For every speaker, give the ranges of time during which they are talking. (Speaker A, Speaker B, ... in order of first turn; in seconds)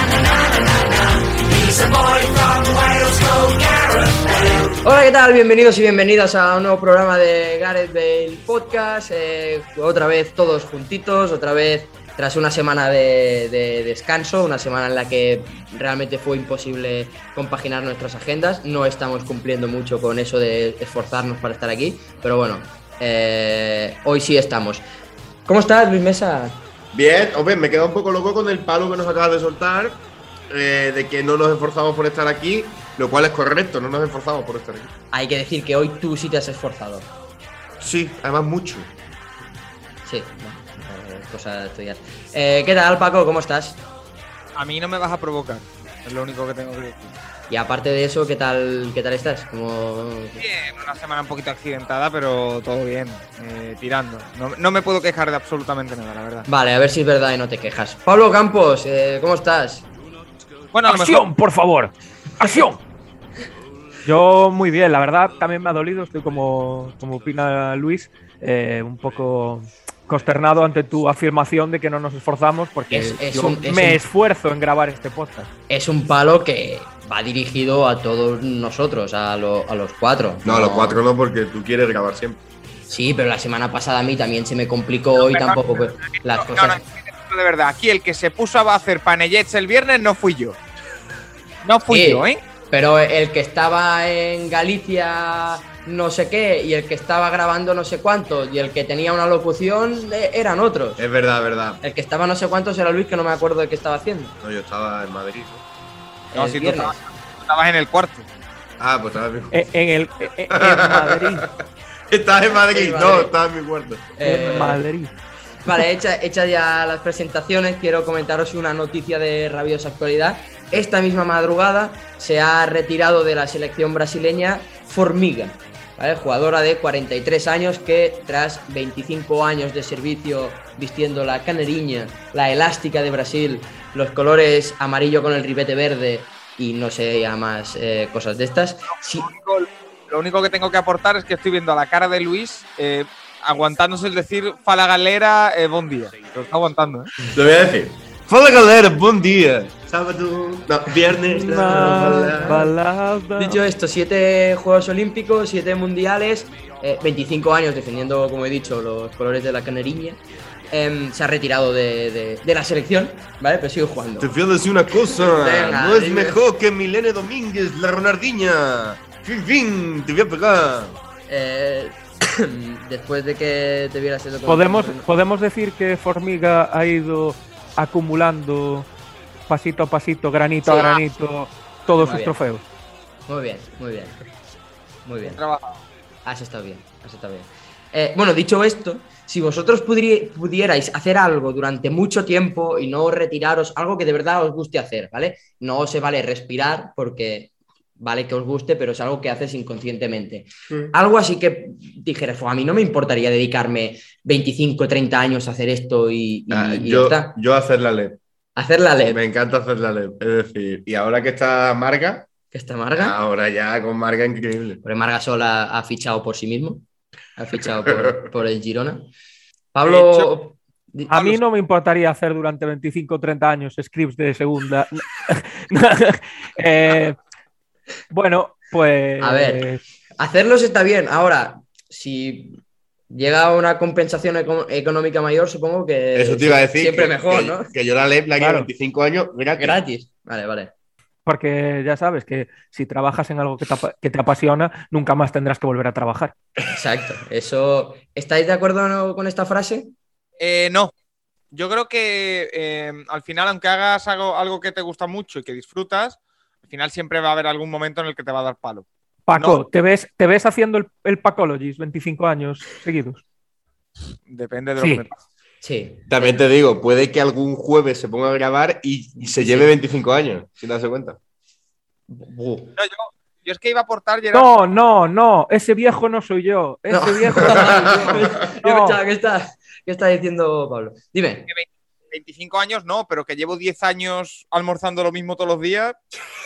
Speaker A: 4.8-24.8, 25.4-26.6, 35.1-37.1, 40.0-43.8, 47.5-50.4, 56.5-59.9, 72.9-74.0, 75.7-81.0, 82.9-86.8, 91.9-101.0, 101.8-104.3, 106.3-106.9, 112.6-113.3, 114.2-114.8, 115.7-139.3, 151.9-152.7, 153.4-160.2, 160.7-164.3, 165.2-166.4, 171.3-175.1, 180.7-181.0, 182.0-182.3, 183.3-184.2, 185.1-185.4, 186.2-207.3, 208.6-209.2, 212.5-213.2, 214.8-216.8, 217.4-219.1, 219.7-221.3, 229.2-229.7, 230.2-232.6, 233.1-237.7, 239.6-240.7, 246.6-249.9, 265.6-266.4, 269.3-269.7, 272.1-272.7, 276.9-281.4
Speaker B: 26.9-34.9, 37.8-38.9, 80.4-82.4, 101.0-101.8, 104.4-105.6, 108.8-109.7, 110.5-114.1, 147.2-152.7, 164.2-171.0, 206.5-208.2, 209.0-212.3, 212.9-214.8, 217.6-218.2, 236.1-239.8, 266.1-271.2, 277.5-278.1
Speaker C: 44.5-47.1, 50.4-56.5, 60.7-61.3, 85.2-90.6, 91.6-92.4, 106.3-108.3, 139.2-147.1, 185.2-185.8, 219.8-220.3, 250.4-250.9, 251.5-259.6, 264.3-265.2, 272.8-274.5, 281.5-286.0
Speaker D: 60.9-62.8, 64.0-75.5, 109.5-111.5, 114.2-115.1, 151.2-153.6, 174.4-178.9, 179.5-182.6, 221.1-227.2, 228.1-229.8, 238.4-238.7, 241.2-246.3, 259.3-263.2, 264.8-265.0, 274.3-279.0